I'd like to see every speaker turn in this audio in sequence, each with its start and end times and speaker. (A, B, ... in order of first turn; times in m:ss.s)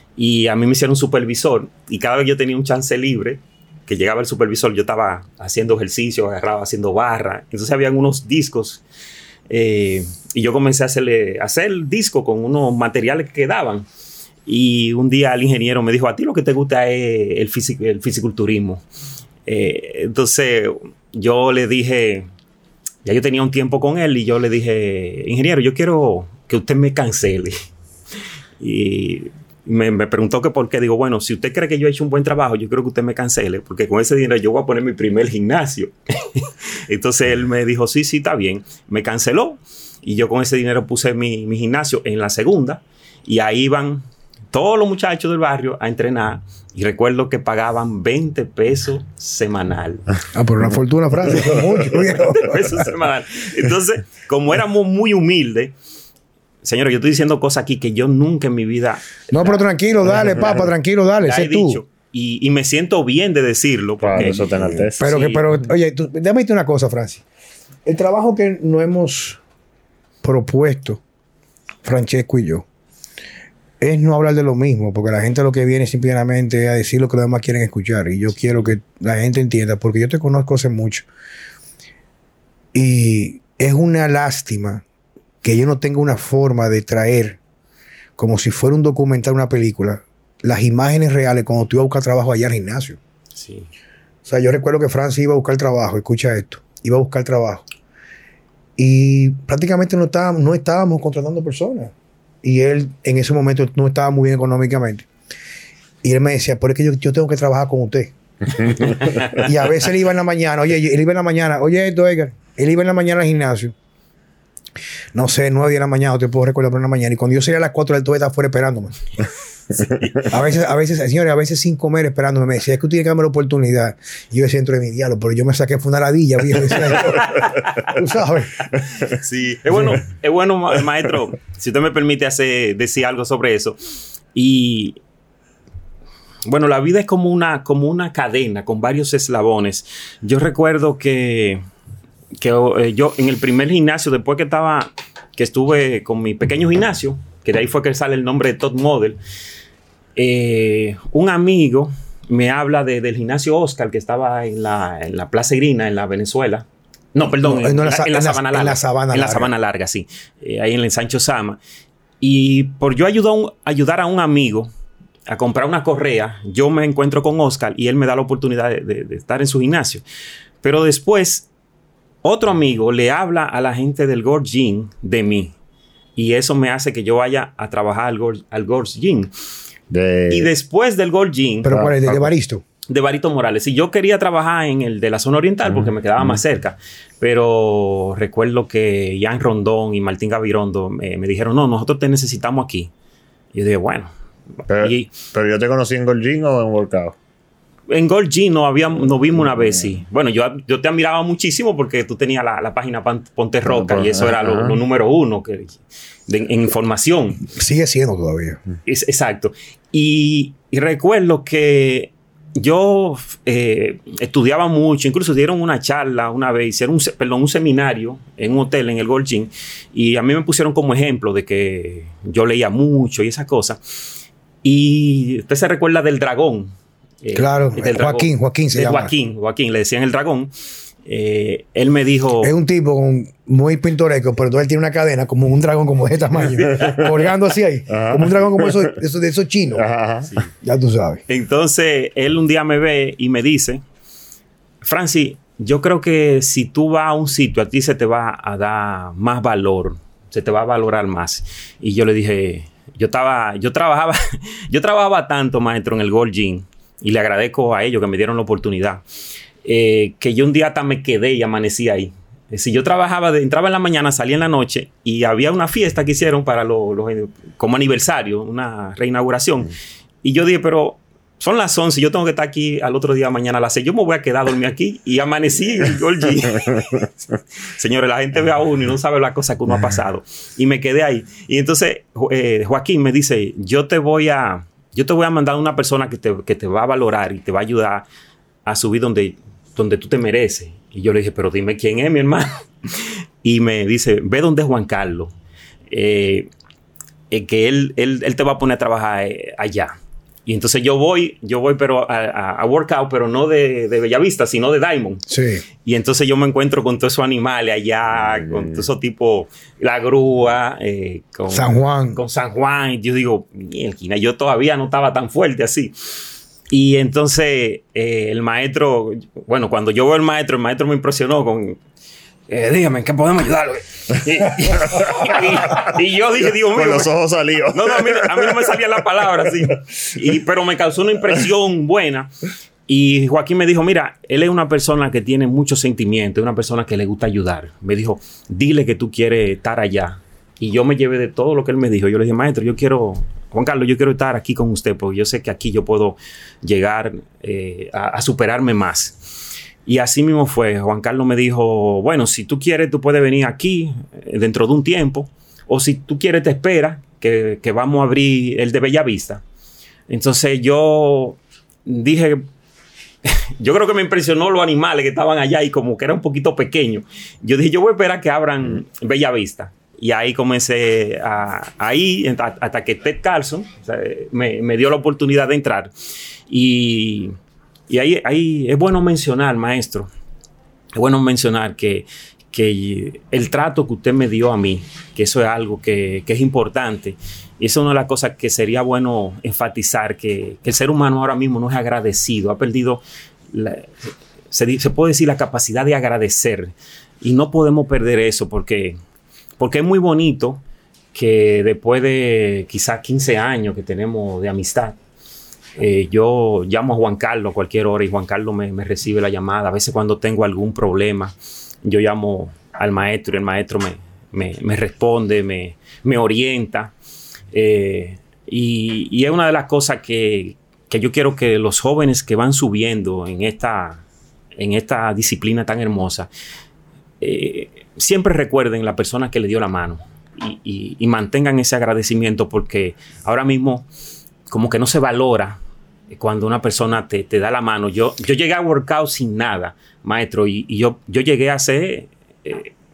0:00.2-0:08.8 A
0:09.5-0:13.9 A
0:14.5-0:18.8 A
0:19.5-0:22.3 A
0:23.0-0:27.6 A
0:28.6-0:50.0 A
0:50.3-0:52.9 B
0:51.3-0:55.8 A
0:56.6-0:59.6 A
0:59.3-1:01.8 B
1:00.2-1:00.5 C
1:01.2-1:05.5 A
1:04.0-1:05.0 C
1:05.0-1:07.2 B
1:07.9-1:09.4 B
1:10.2-1:11.0 B
1:11.8-1:12.7 B
1:13.8-1:21.1 B
1:22.7-1:24.8 B
1:25.4-1:27.4 B
1:28.2-1:33.0 B
1:33.4-1:33.7 A
1:34.3-1:37.6 B
1:38.8-1:45.1 B
1:46.0-1:53.7 B
1:48.8-1:49.5 A
1:55.1-1:59.0 B
1:59.8-2:00.3 A
2:00.3-2:08.7 B
2:06.8-2:08.0 A
2:09.0-2:13.8 A
2:09.7-2:10.0 B
2:14.3-2:15.0 A
2:16.5-2:21.6 A
2:22.4-2:29.2 A
2:30.2-2:41.6 A
2:37.3-2:39.5 B
2:42.2-2:44.7 A
2:45.3-2:50.0 A
2:50.6-2:51.5 A
2:52.2-2:55.5 A
2:56.2-2:59.3 A
2:59.9-3:00.5 C
3:00.3-3:02.3 A
3:01.6-3:02.6 B
3:01.7-3:02.2 C
3:02.9-3:12.9 A
3:05.6-3:06.4 C
3:13.5-3:14.1 A
3:14.7-3:17.2 C
3:14.7-3:15.1 A
3:17.9-3:27.5 A
3:23.6-3:24.8 C
3:27.5-3:28.6 B
3:28.9-3:43.8 A
3:44.6-3:46.7 A
3:47.2-3:50.5 A
3:47.3-3:49.1 B
3:51.0-3:52.5 A
3:52.4-3:59.8 B
3:56.7-3:57.0 C
3:57.9-3:59.0 C
3:59.8-4:00.3 C
4:00.6-4:01.2 B
4:01.3-4:03.8 A
4:04.8-4:19.0 A
4:19.6-4:29.7 A
4:30.2-4:37.1 A
4:37.8-4:48.1 A
4:48.7-4:55.3 A
4:55.9-4:56.5 A
4:57.3-4:59.9 A
5:00.5-5:05.3 A
5:05.3-5:05.6 B
5:05.8-5:16.2 A
5:08.2-5:08.8 C
5:11.5-5:12.2 B
5:16.7-5:21.8 A
5:22.5-5:27.1 A
5:24.7-5:25.9 C
5:26.7-5:28.8 C
5:27.7-5:32.3 A
5:32.9-5:49.2 A
5:49.8-5:59.4 A
6:00.1-6:02.5 A
6:03.2-6:15.9 A
6:16.5-6:17.4 A
6:17.9-6:20.1 A
6:21.0-6:39.0 A
6:39.6-6:40.6 A
6:41.1-6:45.0 A
6:45.8-6:56.9 A
6:57.5-7:04.0 A
7:04.6-7:06.3 A
7:07.2-7:13.9 A
7:14.5-7:15.6 A
7:16.1-7:22.7 A